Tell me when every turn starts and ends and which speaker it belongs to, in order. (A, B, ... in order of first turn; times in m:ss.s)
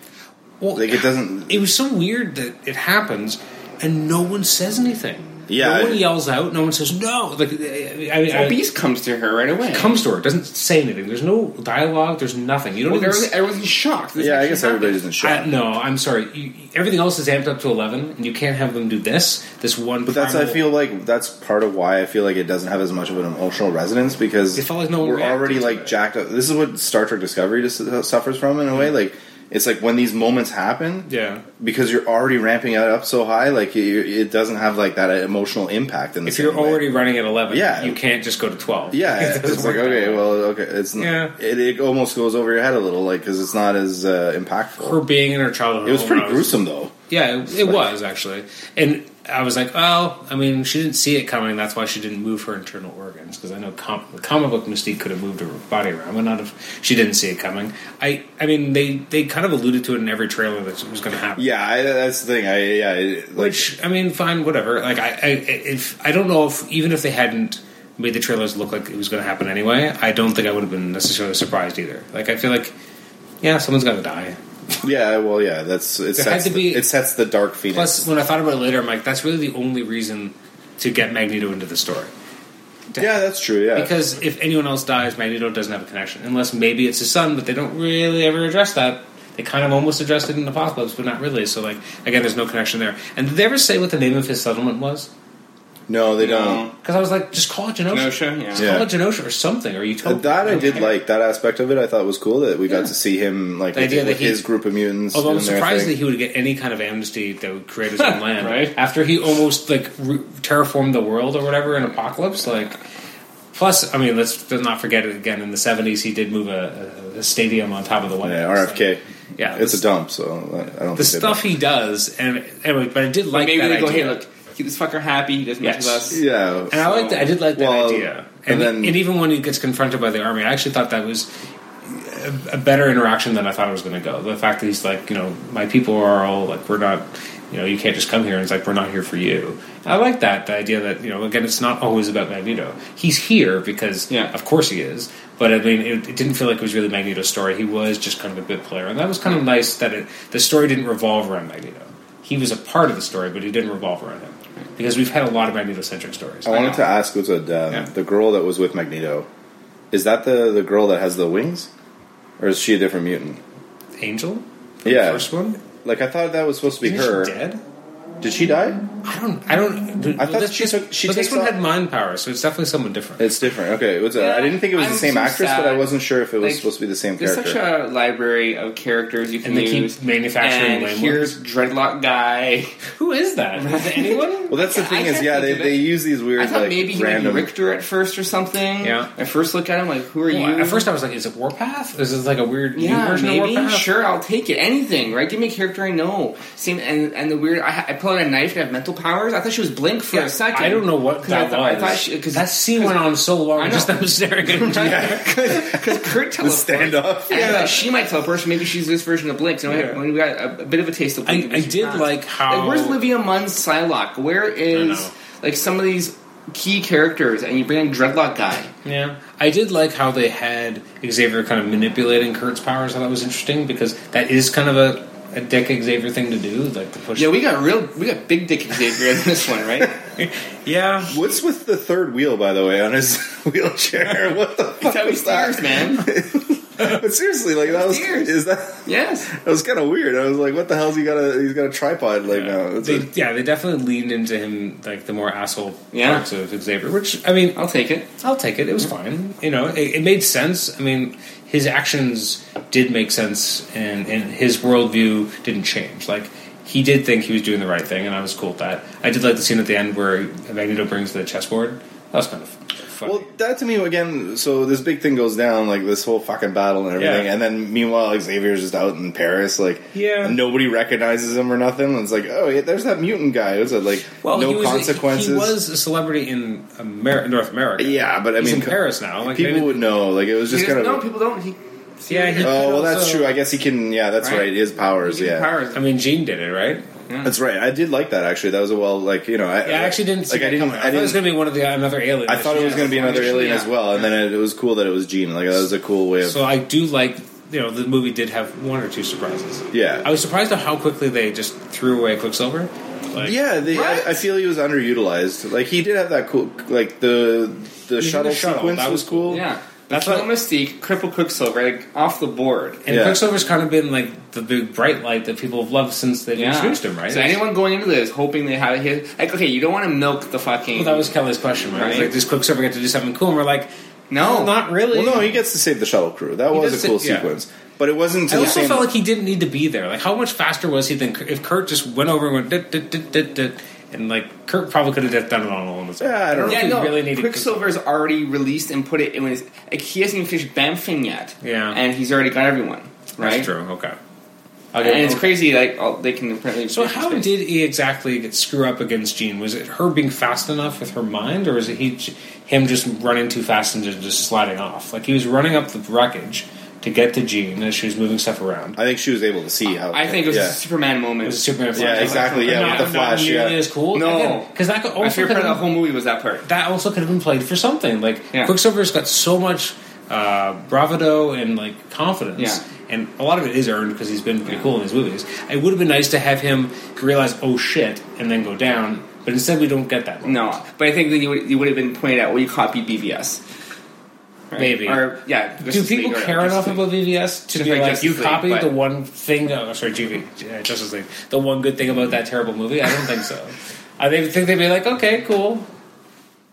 0:00.6-0:08.6 A
0:00.8-0:01.6 B
0:05.5-0:06.0 B
0:08.3-0:10.0 C
0:09.7-0:13.3 A
0:12.8-0:15.0 C
0:14.2-0:15.5 B
0:15.2-0:20.6 A
0:20.1-0:31.1 B
0:24.5-0:26.0 A
0:31.1-0:31.4 A
0:31.6-0:38.0 B
0:36.2-0:40.3 A
0:38.9-0:45.0 B
0:41.0-0:41.3 A
0:44.8-0:46.6 A
0:45.8-0:46.9 B
0:47.1-1:01.6 A
0:47.6-0:47.8 B
1:01.4-1:03.7 B
1:03.4-1:12.7 A
1:13.4-1:14.4 A
1:14.8-1:18.1 B
1:16.2-1:16.9 A
1:17.7-1:22.1 A
1:22.9-1:35.1 A
1:23.0-1:23.9 B
1:35.9-1:36.7 B
1:36.2-1:36.7 C
1:36.8-1:40.9 A
1:37.9-1:38.7 C
1:38.6-1:38.9 B
1:40.0-1:45.9 B
1:40.5-1:40.8 C
1:43.7-1:44.5 A
1:45.1-1:52.8 A
1:48.0-1:48.8 C
1:53.5-1:59.9 A
1:58.2-2:01.4 B
2:00.9-2:04.2 A
2:03.3-2:06.2 C
2:05.6-2:06.1 A
2:06.1-2:09.0 B
2:06.7-2:11.3 A
2:11.8-2:36.8 A
2:36.4-2:39.3 B
2:36.5-2:36.8 C
2:39.9-2:41.7 B
2:42.4-2:43.4 B
2:44.0-2:45.6 A
2:44.8-2:45.3 B
2:45.8-2:47.3 B
2:46.8-2:47.6 A
2:48.2-2:48.8 B
2:49.0-2:53.4 A
2:50.2-2:51.5 B
2:53.2-2:57.6 B
2:54.1-3:02.8 C
2:59.4-3:01.3 A
3:02.9-3:04.5 A
3:03.6-3:05.8 C
3:04.5-3:07.5 B
3:06.4-3:10.9 C
3:08.8-3:09.1 A
3:10.3-3:13.9 A
3:12.7-3:23.0 C
3:20.1-3:25.2 A
3:23.6-3:38.7 C
3:25.4-3:25.8 B
3:26.4-3:27.6 B
3:27.3-3:27.8 A
3:29.7-3:30.0 A
3:31.2-3:33.0 A
3:34.7-3:35.1 A
3:38.8-3:47.3 A
3:47.2-3:50.0 C
3:50.2-3:51.1 A
3:51.1-4:03.1 B
3:54.8-3:56.1 C
3:57.7-3:59.3 C
4:02.3-4:07.6 A
4:05.9-4:06.2 C
4:07.6-4:08.1 C
4:08.2-4:23.3 A
4:23.0-4:35.5 B
4:27.0-4:27.3 A
4:29.9-4:30.4 A
4:34.2-4:39.8 A
4:37.8-4:41.0 B
4:40.5-4:42.6 C
4:42.1-4:43.3 A
4:42.4-4:45.5 B
4:44.2-4:45.8 C
4:45.7-4:46.9 A
4:47.2-4:51.2 B
4:49.6-4:53.3 A
4:52.3-4:56.4 B
4:52.8-4:53.9 C
4:56.2-5:03.4 A
4:59.7-5:00.0 B
5:03.2-5:09.4 B
5:03.6-5:04.2 C
5:08.0-5:10.2 A
5:09.3-5:12.8 C
5:12.8-5:17.4 A
5:12.9-5:13.2 B
5:16.3-5:21.1 C
5:20.7-5:25.4 A
5:21.7-5:22.1 C
5:24.1-5:24.6 C
5:24.9-5:28.9 B
5:26.5-5:27.3 A
5:28.3-5:37.7 A
5:36.0-5:36.8 B
5:36.4-5:43.5 C
5:41.4-5:41.8 A
5:43.2-5:44.0 A
5:44.7-5:45.3 A
5:44.8-5:47.3 C
5:46.7-5:58.8 A
5:58.8-6:00.6 B
5:59.9-6:02.9 C
6:01.2-6:05.6 A
6:01.7-6:03.6 B
6:03.9-6:06.5 C
6:06.4-6:20.6 A
6:12.4-6:12.6 C
6:20.2-6:23.4 C
6:24.5-6:26.9 C
6:24.6-6:25.1 A
6:25.6-6:35.6 A
6:27.5-6:28.7 C